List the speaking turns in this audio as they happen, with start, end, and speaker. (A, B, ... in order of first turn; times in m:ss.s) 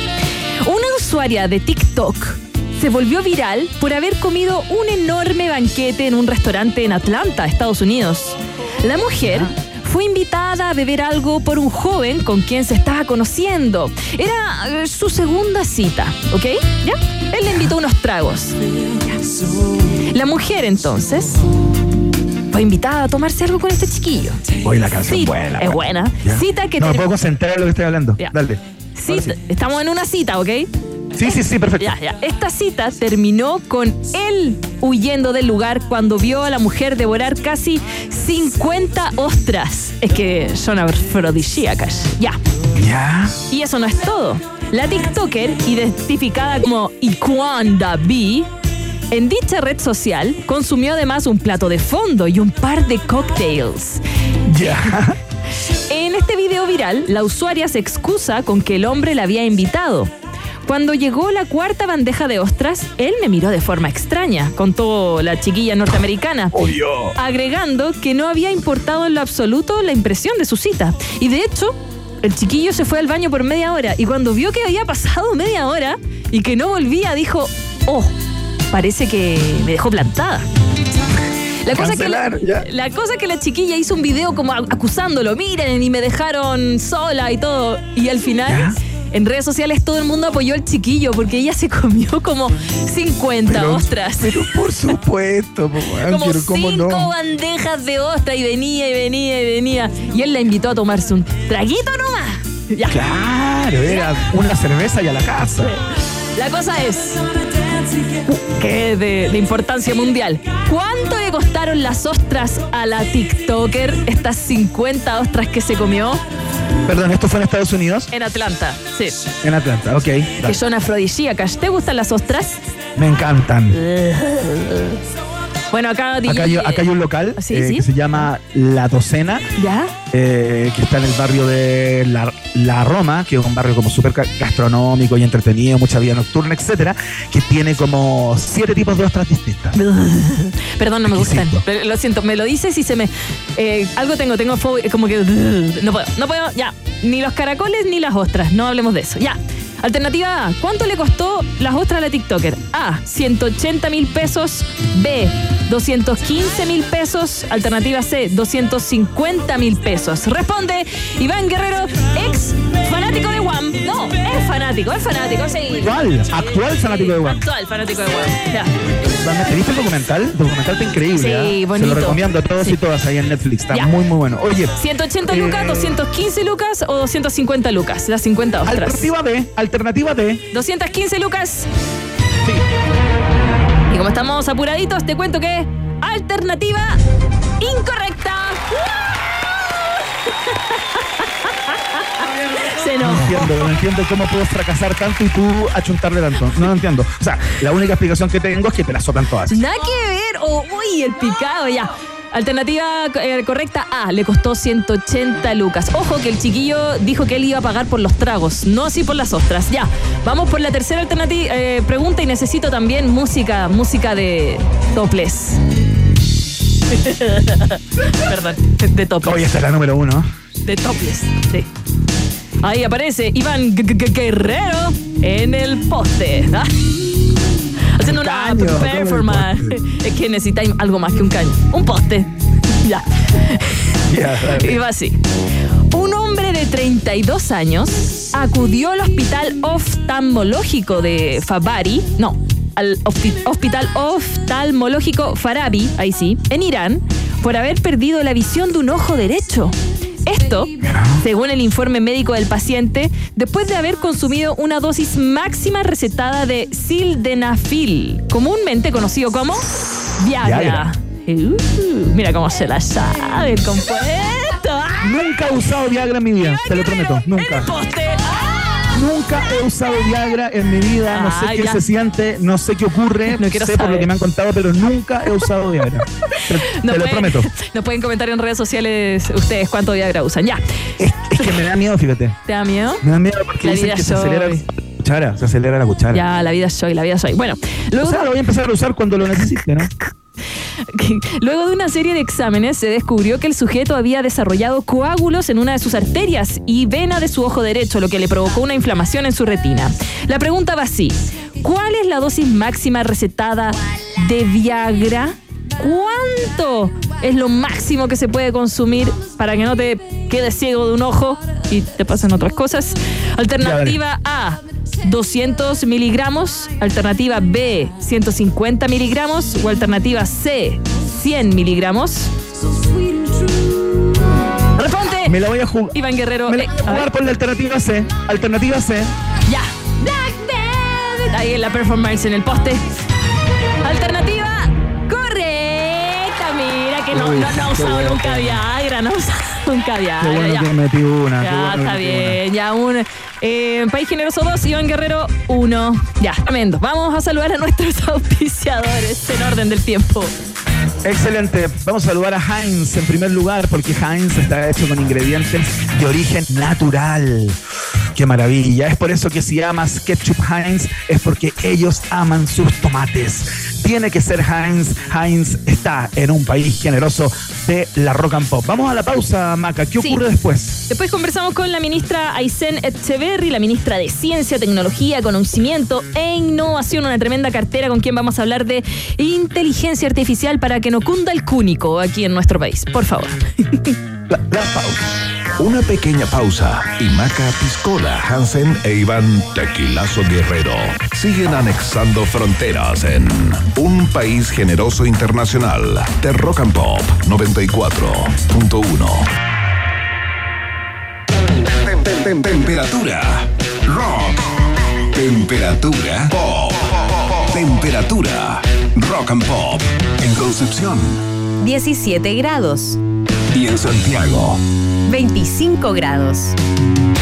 0:00.6-0:18.6 A
0:20.1-0:21.4 A
0:22.5-0:24.4 A
0:24.6-0:29.4 B
0:25.1-0:27.1 A
0:29.0-0:30.7 A
0:31.2-0:32.0 B
0:31.2-0:42.4 A
0:42.7-0:43.4 B
0:43.5-0:48.5 A
0:49.1-0:54.0 A
0:54.5-0:55.2 B
0:55.9-1:00.1 A
1:00.7-1:06.6 A
1:06.5-1:07.1 B
1:07.2-1:18.1 A
1:18.7-1:20.5 A
1:21.6-1:34.5 A
1:21.7-1:22.7 B
1:28.5-1:28.8 B
1:33.5-1:37.1 B
1:36.0-1:43.0 A
1:42.8-1:45.7 B
1:46.3-1:47.2 A
1:48.1-1:56.2 A
1:56.9-1:58.1 B
1:58.1-1:59.2 A
1:59.4-2:00.6 B
2:00.4-2:02.6 A
2:03.0-2:03.8 B
2:03.7-2:05.0 A
2:05.7-2:06.8 A
2:06.3-2:09.5 B
2:07.4-2:08.3 A
2:09.6-2:09.9 A
2:10.1-2:19.8 B
2:19.8-2:48.7 A
2:21.1-2:21.6 B
2:45.7-2:47.4 B
2:49.1-2:54.7 B
2:51.1-2:52.8 A
2:54.8-2:59.1 A
2:55.3-2:56.0 B
2:58.7-3:00.4 B
3:00.5-3:01.7 A
3:03.9-3:07.0 A
3:07.6-3:13.5 A
3:13.0-3:19.6 B
3:19.5-3:35.6 A
3:36.9-3:39.5 A
3:39.2-3:40.3 B
3:40.6-3:41.7 A
3:42.6-3:47.1 A
3:48.0-3:54.0 A
3:48.0-3:49.8 B
3:54.1-3:54.8 B
3:54.5-3:55.2 A
3:55.9-4:19.7 A
4:10.8-4:11.2 B
4:20.2-4:25.3 A
4:20.4-4:20.8 B
4:25.0-4:27.7 B
4:26.6-4:28.8 A
4:28.9-4:37.5 B
4:31.1-4:31.8 A
4:33.3-4:34.1 A
4:36.4-4:40.6 A
4:41.0-4:42.4 B
4:42.5-4:43.0 A
4:43.0-4:46.2 B
4:43.6-4:44.6 A
4:46.1-4:48.2 A
4:48.0-4:49.9 B
4:50.9-5:22.3 A
5:13.6-5:14.0 B
5:24.8-5:25.4 A
5:25.2-5:29.1 B
5:25.9-5:27.1 A
5:29.5-5:32.8 A
5:33.8-5:40.7 A
5:37.1-5:38.6 B
5:40.2-5:42.4 B
5:41.4-5:50.3 A
5:51.0-5:57.6 B
5:58.2-6:10.8 B
6:10.9-6:23.9 A
6:24.3-6:25.0 B
6:25.6-6:39.3 C
6:41.8-6:44.5 C
6:45.1-6:51.2 C
6:51.6-6:53.0 D
6:53.5-6:54.6 C
6:55.1-6:56.6 D